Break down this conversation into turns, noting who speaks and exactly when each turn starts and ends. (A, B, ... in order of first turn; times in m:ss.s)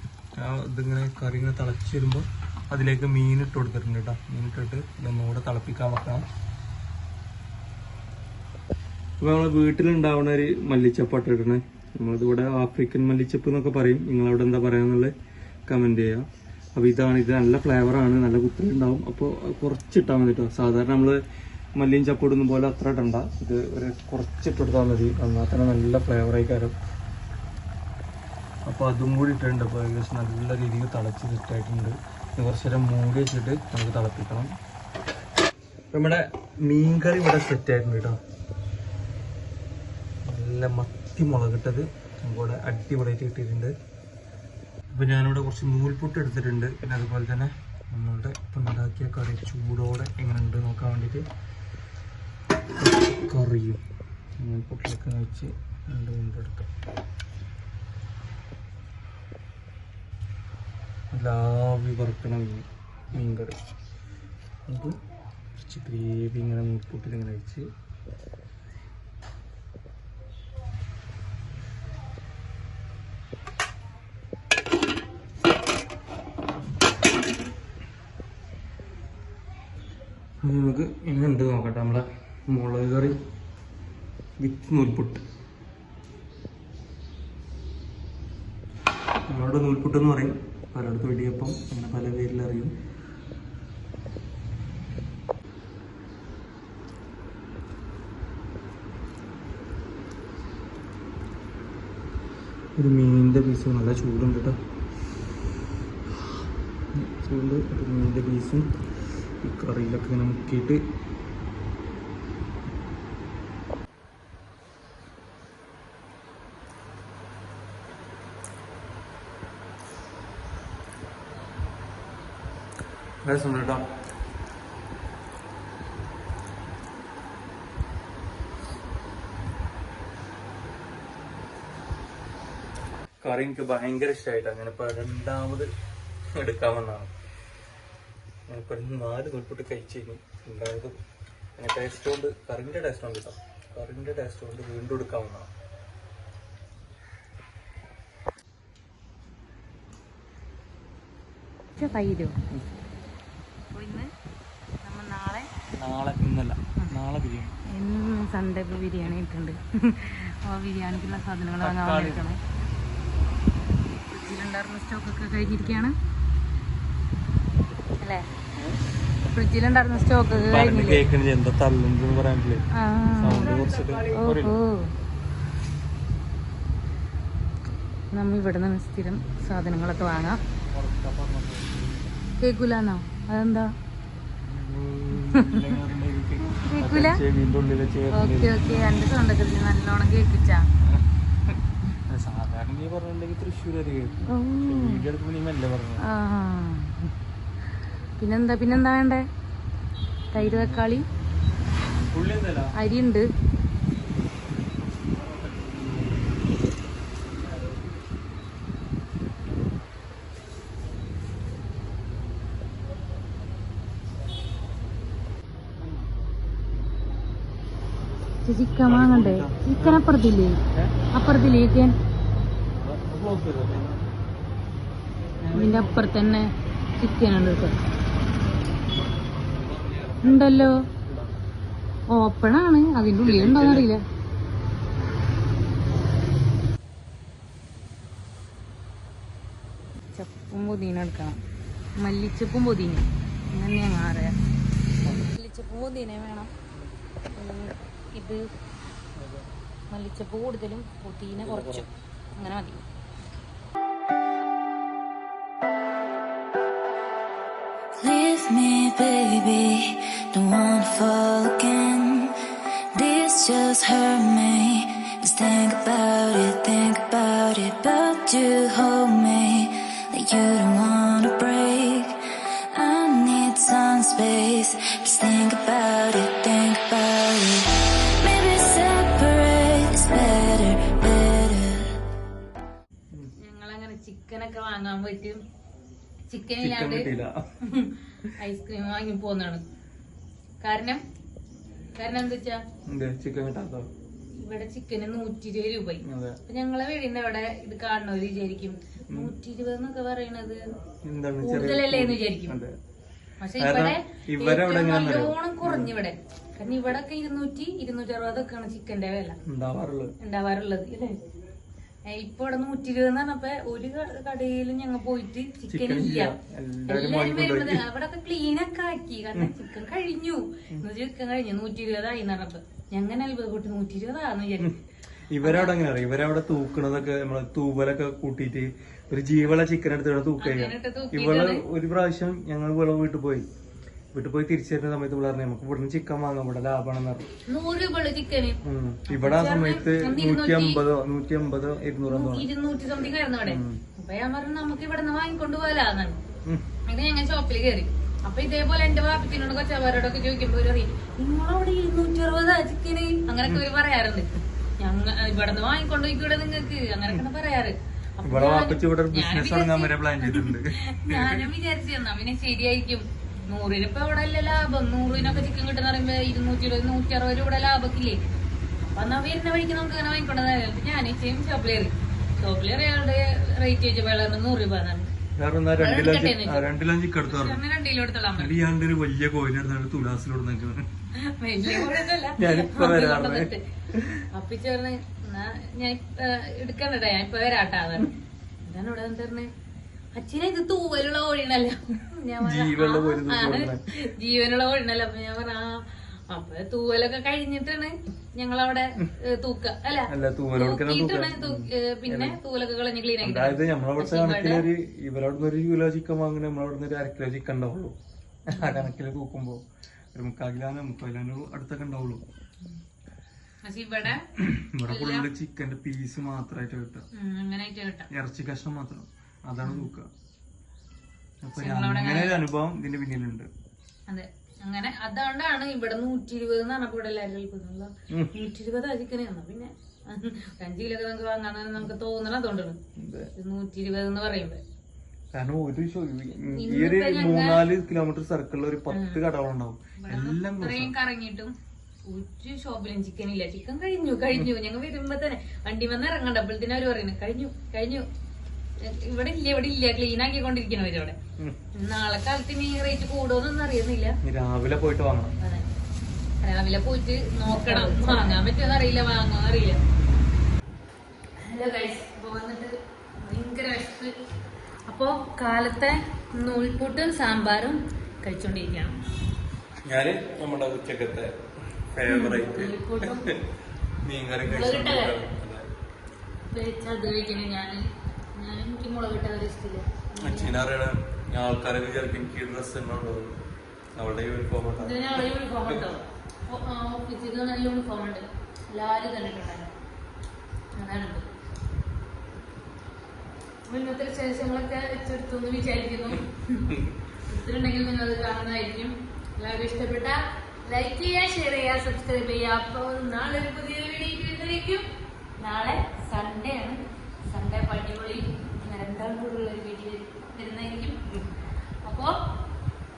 0:00.4-0:06.2 A
0:09.2-0:15.1 A
0:15.7-0:21.2 A
0:21.8-0:26.7 A
0:28.7-0:34.5 A
0:35.9-0:38.2 A
0:40.2-0:43.7 A
0:44.9-0:51.2 A
0:52.8-0:53.8 A
0:54.4-0:56.7 A
1:01.1-1:03.5 A
1:04.7-1:05.0 A
1:05.6-1:07.7 A
1:20.4-1:23.1 A
1:24.4-1:25.2 A
1:29.3-1:32.7 A
1:42.8-1:44.6 A
1:46.9-1:48.7 A
1:49.4-1:50.8 A
2:03.2-2:03.8 A
2:13.2-2:15.7 A
2:16.3-2:17.1 A
2:18.5-2:21.0 A
2:21.6-2:25.5 A
2:31.8-2:32.4 B
2:33.7-2:34.1 B
2:34.8-2:35.5 B
2:35.8-2:37.5 A
2:37.7-2:42.4 B
2:41.6-2:42.2 A
2:44.1-2:45.9 B
2:48.0-2:48.3 B
2:49.3-2:51.0 B
2:50.4-2:54.6 A
2:52.8-2:54.9 B
2:58.1-3:00.4 B
3:00.6-3:02.1 A
3:02.4-3:03.7 B
3:04.4-3:08.6 A
3:05.2-3:05.8 B
3:06.5-3:07.2 B
3:08.1-3:10.7 B
3:10.8-3:16.0 A
3:14.3-3:15.0 B
3:16.0-3:17.1 B
3:18.2-3:19.2 B
3:20.3-3:21.0 B
3:20.4-3:20.9 A
3:22.1-3:22.7 A
3:22.8-3:23.3 B
3:25.1-3:26.4 A
3:35.8-3:36.3 A
3:38.4-3:40.6 B
3:38.8-3:40.0 A
3:41.1-3:42.0 B
3:42.7-3:44.0 A
3:45.4-3:46.0 A
3:45.5-3:47.8 B
3:49.3-3:51.4 A
3:50.2-3:50.7 B
3:52.1-3:54.0 B
3:53.2-3:53.9 A
4:00.1-4:01.4 B
4:02.0-4:04.4 B
4:05.2-4:06.5 B
4:07.3-4:08.4 B
4:09.2-4:09.5 A
4:09.9-4:12.8 B
4:11.4-4:11.8 A
4:18.0-4:22.3 C
4:22.9-4:32.2 C
4:32.7-4:37.7 C
4:38.2-4:41.9 C
4:43.4-4:45.4 B
4:46.3-4:47.1 B
4:46.6-4:47.4 A
4:47.7-4:49.6 B
4:50.6-4:51.0 B
4:51.9-4:52.6 B
4:52.9-4:53.9 A
4:54.4-5:00.6 B
4:56.0-4:56.4 A
4:59.1-4:59.3 A
5:01.0-5:02.7 A
5:01.4-5:02.6 B
5:03.4-5:09.4 B
5:03.6-5:05.9 A
5:09.4-5:10.1 A
5:10.2-5:11.2 B
5:12.1-5:16.3 B
5:15.7-5:17.8 A
5:16.9-5:24.7 B
5:25.3-5:33.5 A
5:25.4-5:25.8 B
5:30.4-5:31.6 B
5:34.1-5:37.3 A
5:37.5-5:40.8 B
5:38.6-5:42.5 A
5:42.1-5:46.2 B
5:43.4-5:43.8 A
5:46.9-6:08.2 B
5:58.2-6:01.5 A
6:05.1-6:05.5 A
6:08.8-6:15.1 B
6:15.4-6:17.6 A
6:15.8-6:16.7 B
6:17.3-6:18.5 B
6:18.4-6:20.9 A
6:21.2-6:23.6 B
6:21.6-6:24.2 A
6:24.3-6:29.5 B
6:30.1-6:44.6 B
6:32.4-6:33.8 A
6:40.1-6:42.4 A
6:43.2-6:48.0 A
6:48.5-6:48.9 B
6:48.5-6:49.6 A
6:50.1-6:52.2 A
6:53.6-6:54.3 B
6:54.0-6:57.0 A
6:54.9-6:55.3 B
6:57.2-6:58.1 B
6:58.1-7:00.1 A
6:59.6-6:59.9 B
7:01.4-7:03.5 A
7:01.6-7:02.4 B
7:04.1-7:12.8 B
7:13.0-7:13.3 A
7:13.4-7:14.6 B
7:15.3-7:20.9 A
7:16.5-7:17.6 B
7:18.9-7:19.2 B
7:20.0-7:21.5 B
7:22.1-7:28.0 B
7:28.8-7:31.2 B
7:31.8-7:34.1 B
7:34.2-7:35.3 A
7:35.4-7:35.6 B
7:36.4-7:39.8 B
7:37.6-7:38.2 A
7:41.4-7:44.1 B
7:44.9-7:49.0 B
7:49.8-7:51.3 A
7:51.9-7:53.4 A
7:52.1-7:53.2 B
7:54.0-7:55.7 A
7:54.4-7:55.2 B
7:56.5-7:57.8 B
7:58.4-8:00.6 B
8:00.2-8:03.4 A
8:03.9-8:05.9 A
8:04.8-8:09.7 B
8:10.8-8:11.3 B
8:13.7-8:16.7 B
8:17.3-8:24.8 B
8:25.4-8:31.2 B
8:31.8-8:32.2 B